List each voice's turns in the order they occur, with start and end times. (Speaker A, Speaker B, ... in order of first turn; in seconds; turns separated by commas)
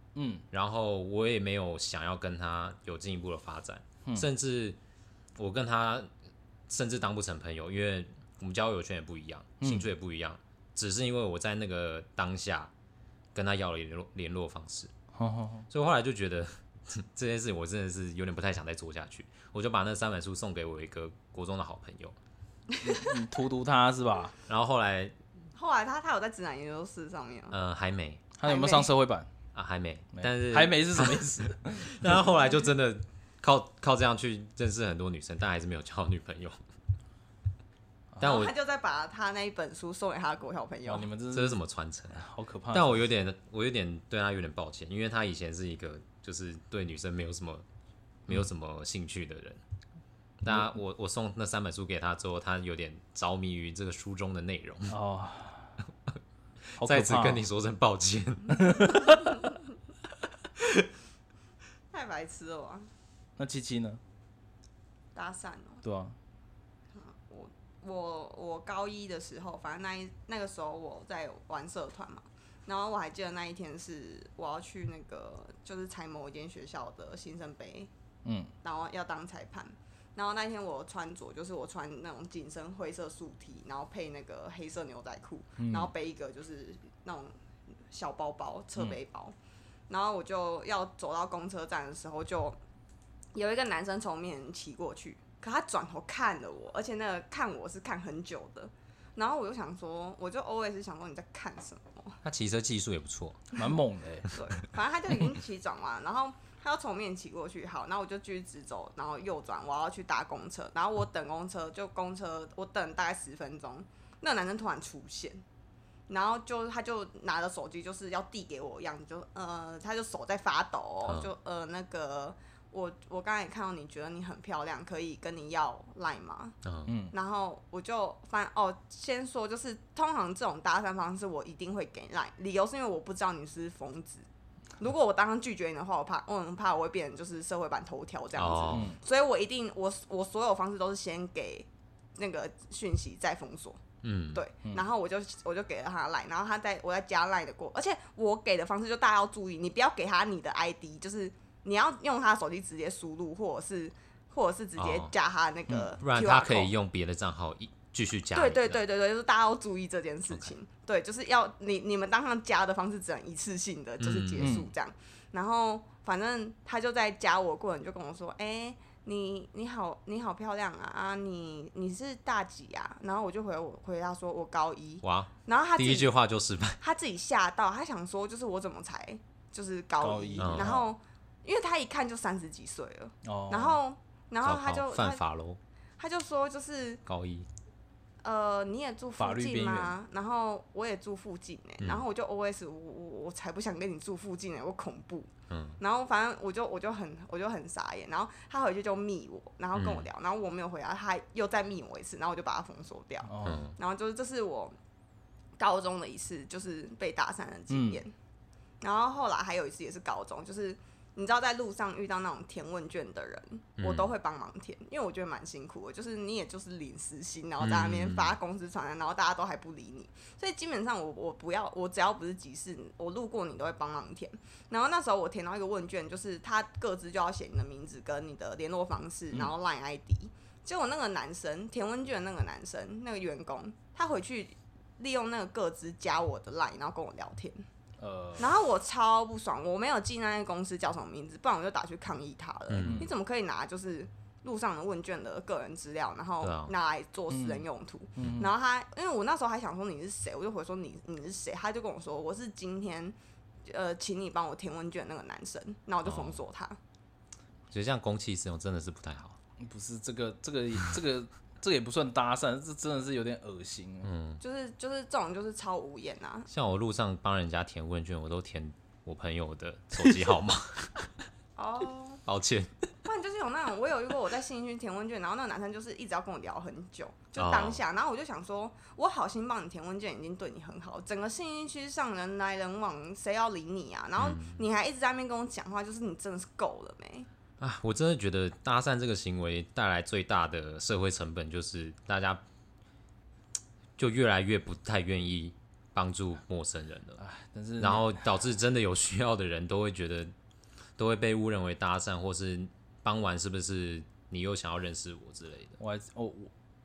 Speaker A: 0.1-0.4, Speaker B: 0.5-4.8, Speaker B: 5.4-6.1, Speaker B: 6.7-12.7, Speaker A: 9.6-9.9, Speaker B: 13.3-14.9, Speaker A: 15.1-15.7, Speaker B: 15.7-22.1, Speaker A: 22.8-24.4, Speaker B: 24.4-25.1, Speaker C: 25.5-27.6, Speaker B: 27.5-28.2, Speaker A: 28.4-29.3, Speaker C: 28.4-28.9, Speaker B: 29.5-36.6, Speaker A: 30.1-32.2, Speaker A: 38.1-38.4, Speaker C: 38.2-41.1, Speaker B: 38.2-38.5, Speaker A: 40.9-41.6, Speaker B: 41.3-42.2, Speaker A: 42.1-43.1, Speaker B: 42.7-47.6, Speaker B: 48.3-49.6, Speaker B: 50.4-55.0, Speaker A: 50.4-50.7, Speaker A: 54.9-55.8, Speaker A: 56.8-57.5, Speaker B: 56.8-59.3, Speaker A: 58.5-59.3, Speaker B: 60.5-60.9, Speaker C: 61.9-62.9, Speaker A: 63.4-64.0, Speaker C: 65.1-65.8, Speaker A: 65.8-66.2, Speaker C: 66.9-77.9, Speaker A: 78.2-78.5, Speaker C: 78.6-87.4, Speaker A: 85.6-85.9, Speaker C: 87.9-89.3, Speaker C: 89.9-92.6, Speaker C: 93.3-102.2, Speaker B: 102.2-103.6, Speaker A: 103.5-104.3, Speaker C: 104.3-115.4, Speaker C: 116.1-126.6, Speaker B: 121.0-121.3, Speaker B: 126.6-126.9, Speaker A: 126.9-127.1, Speaker C: 127.1-134.3, Speaker C: 134.8-143.8, Speaker B: 138.3-138.9, Speaker A: 138.7-139.0, Speaker B: 144.0-144.4, Speaker C: 144.3-156.7, Speaker B: 154.8-155.1, Speaker A: 155.7-155.9, Speaker B: 156.0-158.8, Speaker C: 158.3-176.1, Speaker B: 164.0-164.6, Speaker A: 164.4-164.7, Speaker B: 175.0-176.8, Speaker C: 176.8-185.2, Speaker A: 180.0-180.8, Speaker B: 180.4-180.8, Speaker A: 183.2-183.8, Speaker B: 184.4-185.6, Speaker C: 186.0-187.0, Speaker B: 187.1-187.5, Speaker C: 188.2-195.3, Speaker A: 189.2-189.9, Speaker B: 191.8-192.1, Speaker B: 195.5-195.8, Speaker C: 195.8-204.7, Speaker B: 199.7-200.1, Speaker A: 203.2-203.6, Speaker B: 203.4-203.8, Speaker C: 205.6-208.1, Speaker A: 207.7-208.0, Speaker C: 208.8-237.6, Speaker B: 213.8-214.1, Speaker B: 217.6-218.4, Speaker A: 238.0-238.5, Speaker C: 238.4-253.1, Speaker B: 242.7-243.1, Speaker A: 242.8-243.1, Speaker B: 246.4-246.7, Speaker A: 247.3-247.6, Speaker A: 248.2-248.5, Speaker C: 253.7-256.8, Speaker B: 256.0-256.4, Speaker B: 257.7-259.4, Speaker A: 259.6-264.1, Speaker B: 264.0-264.4, Speaker C: 264.4-266.5, Speaker B: 266.5-271.1, Speaker C: 271.6-272.2, Speaker B: 272.2-272.7, Speaker C: 273.0-287.3, Speaker B: 277.4-277.8, Speaker B: 284.2-284.6, Speaker B: 287.6-292.4, Speaker B: 294.0-297.2, Speaker A: 297.2-298.3, Speaker B: 297.8-300.3, Speaker B: 301.0-305.8, Speaker A: 305.8-306.5